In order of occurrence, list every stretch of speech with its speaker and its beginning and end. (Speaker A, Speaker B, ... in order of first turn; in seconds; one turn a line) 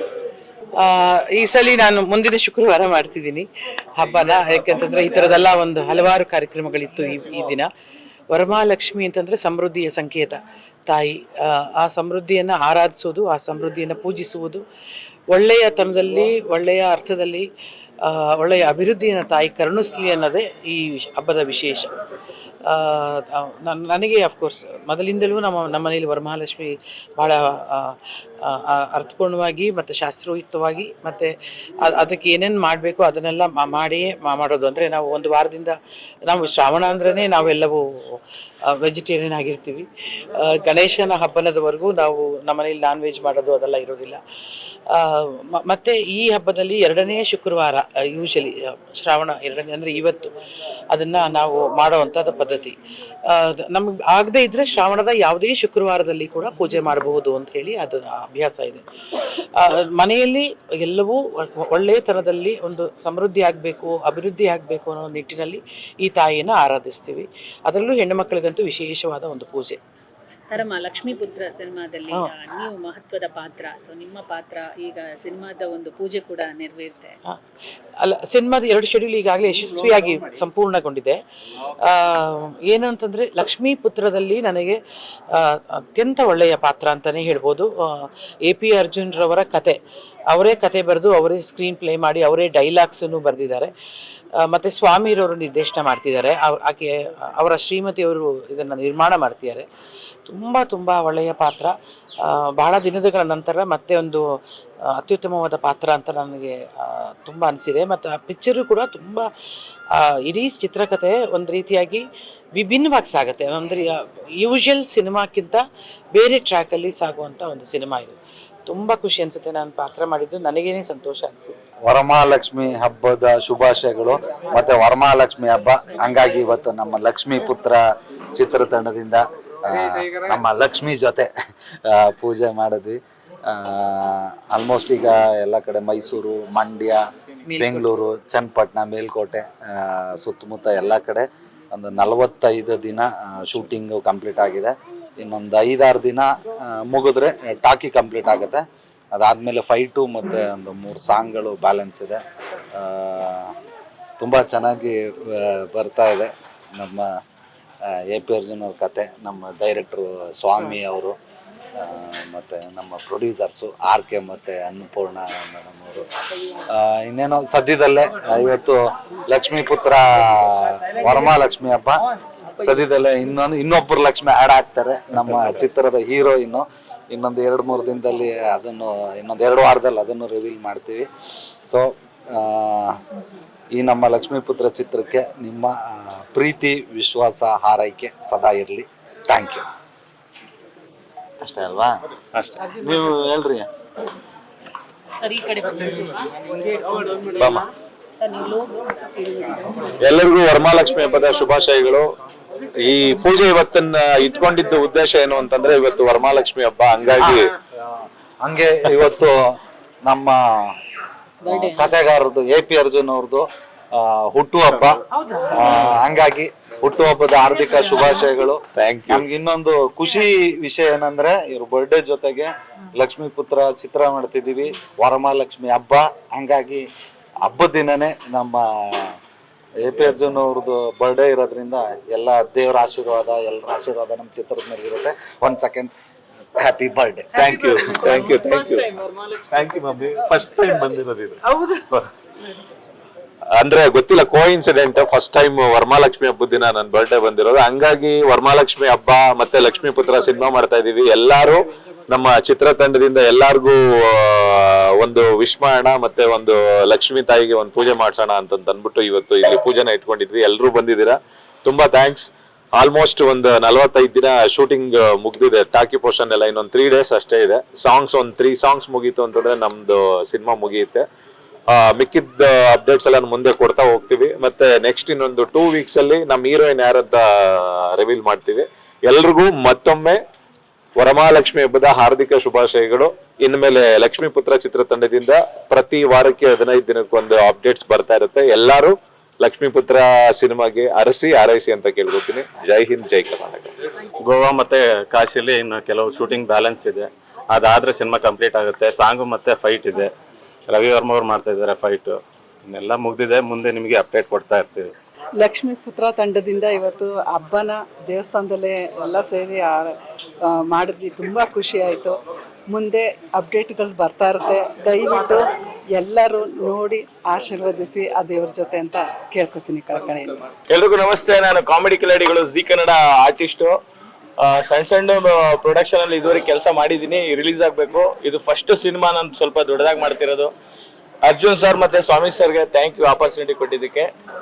Speaker A: 0.8-7.7
Speaker A: 8.3-14.6
Speaker A: 15.3-17.5
Speaker A: 18.0-21.9
Speaker A: 22.6-35.7
Speaker A: 36.3-44.2
Speaker A: 44.9-50.3
Speaker A: 50.9-69.8
Speaker B: 70.5-77.2
Speaker A: 78.0-81.2
Speaker A: 81.8-84.8
Speaker A: 85.3-89.8
Speaker A: 90.3-93.7
Speaker A: 94.5-99.7
Speaker A: 100.3-104.2
Speaker A: 104.9-109.3
Speaker A: 109.9-115.6
Speaker A: 116.1-121.5
Speaker C: 121.8-127.8
Speaker C: 128.3-131.3
Speaker C: 131.8-137.0
Speaker A: 137.5-137.9
Speaker C: 137.6-148.6
Speaker C: 149.1-152.2
Speaker C: 152.7-153.5
Speaker C: 154.2-157.1
Speaker C: 157.9-161.1
Speaker C: 161.8-166.0
Speaker C: 166.7-172.0
Speaker C: 172.6-181.1
Speaker C: 181.6-183.0
Speaker C: 183.7-189.6
Speaker C: 191.4-191.9
Speaker C: 192.6-193.7
Speaker B: 195.2-200.0
Speaker D: 200.0-202.1
Speaker D: 202.8-207.4
Speaker C: 208.4-209.3
Speaker C: 210.1-210.4
Speaker B: 211.4-211.9
Speaker C: 211.4-215.0
Speaker C: 215.5-226.8
Speaker D: 218.8-219.2
Speaker C: 227.4-229.2
Speaker C: 229.8-235.9
Speaker C: 236.6-237.3
Speaker D: 237.3-238.9
Speaker D: 239.5-241.4
Speaker D: 243.5-271.1
Speaker D: 271.7-280.2
Speaker D: 281.0-293.7
Speaker E: 294.2-300.1
Speaker E: 300.7-304.9
Speaker F: 305.4-320.4
Speaker G: 320.7-323.7
Speaker G: 324.4-330.5
Speaker G: 331.3-334.1